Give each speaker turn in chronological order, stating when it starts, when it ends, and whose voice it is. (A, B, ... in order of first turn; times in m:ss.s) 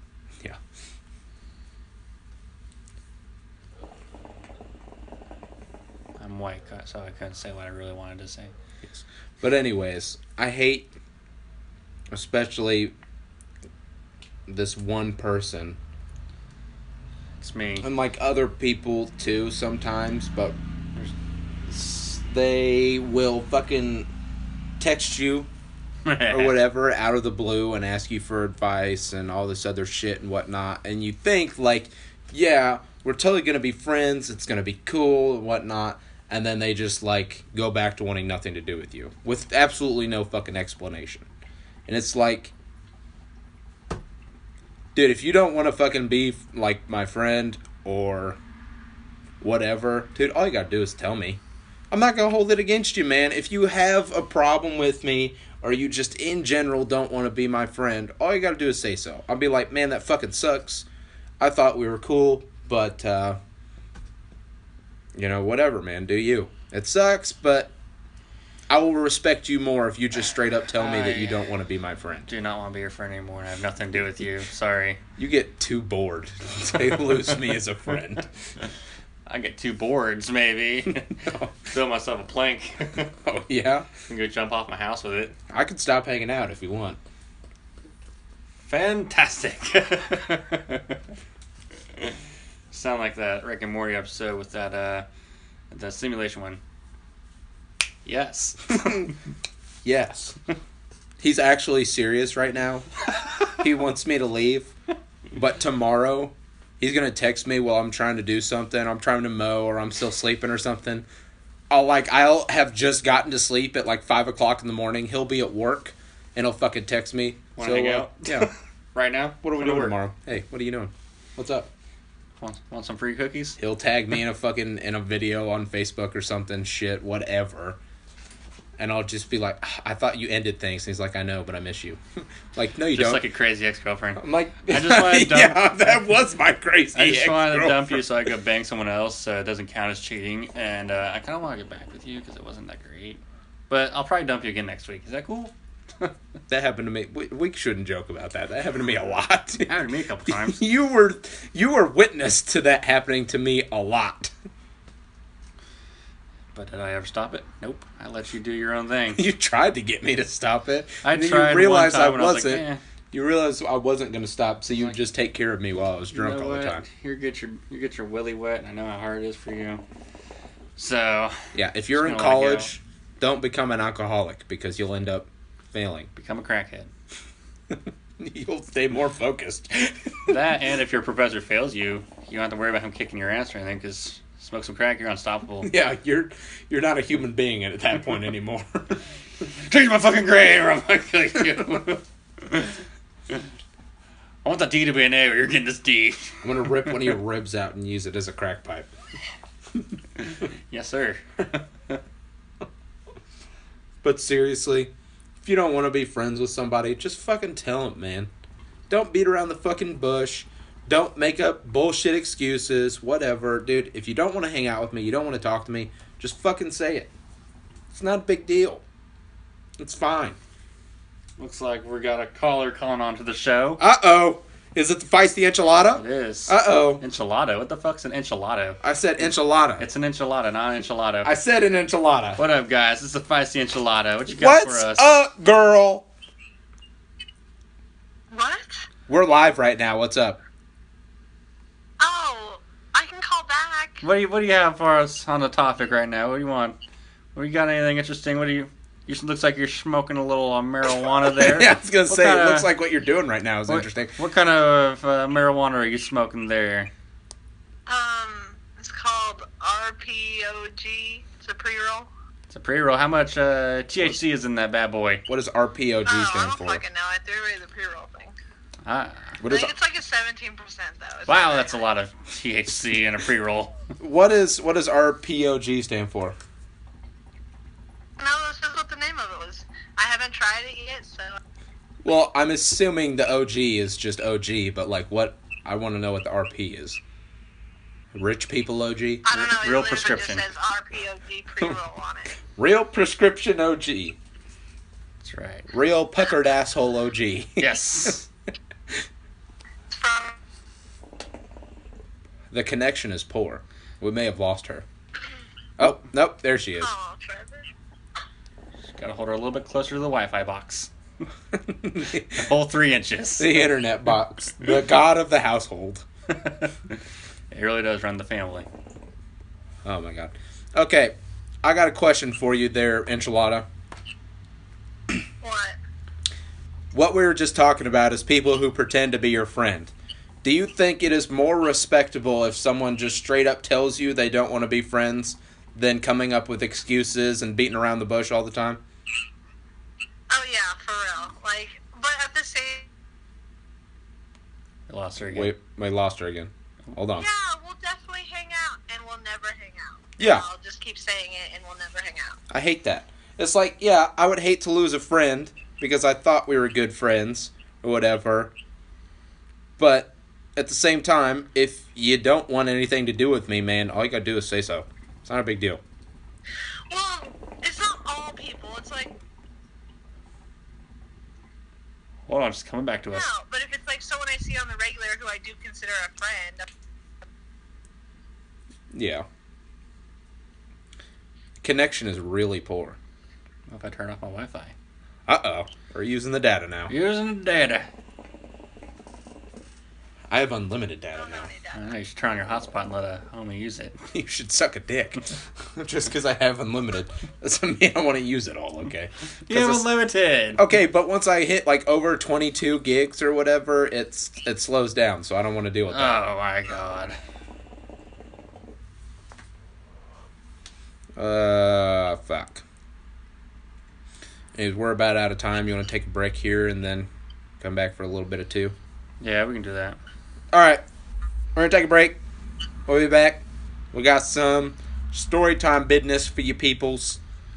0:06.2-0:08.5 A
0:08.8-0:10.9 B
0:12.1-0:12.9 B
0:14.5-0:15.8 B
0:17.4-0:17.9 A
0:17.8-0:20.6 B
0:21.7-0:24.1 B
0:24.8-0:25.5 B
0:26.0-0:26.6 A
0:26.3-0:41.3 B
0:41.9-0:42.5 B
0:45.0-0:48.4 B
0:49.4-0:51.4 B
0:51.9-1:00.9 B
1:01.4-1:03.4 B
1:05.2-1:07.7 B
1:08.7-1:12.3 B
1:10.8-1:11.4 A
1:12.3-1:15.0 A
1:15.2-1:18.3 B
1:19.3-1:23.1 A
1:21.2-1:21.5 B
1:23.2-1:23.9 B
1:24.1-1:25.3 A
1:25.5-1:27.0 B
1:28.7-1:31.0 A
1:32.7-1:35.1 A
1:35.7-1:36.6 A
1:38.0-1:39.2 A
1:39.8-1:40.4 B
1:41.2-1:42.9 B
1:43.5-1:44.7 B
1:45.3-1:51.1 B
1:51.7-1:58.5 B
1:57.6-2:00.0 A
1:59.4-2:01.7 B
2:02.4-2:03.6 A
2:03.6-2:07.8 B
2:08.8-2:12.0 B
2:12.5-2:13.2 B
2:12.9-2:15.7 A
2:14.2-2:18.1 B
2:16.9-2:26.1 A
2:26.5-2:29.8 B
2:29.6-2:30.6 A
2:30.3-2:34.3 B
2:36.5-2:39.2 A
2:39.1-2:46.8 B
2:41.0-2:42.8 A
2:46.1-2:49.8 A
2:50.8-2:52.7 A
2:51.5-2:56.1 B
2:56.2-2:56.9 A
2:57.7-3:00.4 B
3:00.3-3:05.7 A
3:05.6-3:09.0 B
3:09.6-3:12.8 A
3:14.4-3:16.9 A
3:16.4-3:18.9 B
3:20.2-3:22.0 A
3:24.0-3:28.3 B
3:28.9-3:37.1 B
3:37.9-3:38.8 B
3:39.8-3:40.4 B
3:41.4-3:43.8 A
3:43.8-3:47.0 B
3:45.9-3:48.8 A
3:48.8-3:49.9 B
3:49.8-3:51.3 A
3:51.2-3:52.4 B
3:52.4-3:55.1 A
3:54.3-3:56.1 B
3:58.3-3:58.9 C
3:59.1-4:00.4 B
4:02.0-4:04.0 C
4:04.0-4:06.8 A
4:07.3-4:12.7 A
4:11.3-4:14.2 B
4:13.7-4:16.9 A
4:17.9-4:22.1 C
4:22.5-4:25.2 A
4:25.3-4:26.8 B
4:26.0-4:28.4 C
4:28.8-4:29.4 A
4:29.4-4:29.7 B
4:29.4-4:31.8 C
4:31.3-4:33.7 A
4:34.0-4:36.4 B
4:38.2-4:41.4 C
4:42.0-4:47.0 B
4:48.1-4:49.2 B
4:49.2-4:52.4 C
4:49.3-4:50.4 A
4:52.6-4:54.2 B
4:55.2-4:55.7 A
4:55.7-4:58.2 B
4:57.6-4:58.3 A
4:59.9-5:00.4 C
5:02.5-5:04.8 B
5:05.8-5:06.9 B
5:06.8-5:07.7 C
5:08.9-5:10.9 A
5:11.5-5:12.5 B
5:12.3-5:13.7 A
5:13.4-5:16.0 B
5:16.3-5:17.0 A
5:17.5-5:18.7 A
5:19.8-5:23.7 B
5:25.4-5:25.8 C
5:26.9-5:38.8 B
5:40.3-5:42.9 C
5:44.9-5:45.5 A
5:45.2-5:47.3 B
5:47.2-5:52.4 C
5:50.2-5:50.4 B
5:52.5-5:58.5 B
5:59.8-6:05.8 B
6:06.9-6:09.2 C
6:12.3-6:13.3 A
6:13.1-6:16.7 C
6:18.9-6:19.3 B
6:21.6-6:23.0 B
6:23.7-6:24.7 A
6:25.3-6:26.9 B
6:26.9-6:27.9 A
6:30.3-6:31.5 B
6:31.2-6:31.8 C
6:31.7-6:34.0 A
6:34.1-6:39.9 B
6:39.5-6:40.6 A
6:40.6-6:46.2 B
6:45.9-6:47.2 A
6:51.2-6:52.6 B
6:54.6-6:57.1 B
6:57.6-6:58.8 B
6:59.2-7:00.0 A
7:00.5-7:00.8 B
7:01.6-7:02.2 B
7:02.9-7:07.2 B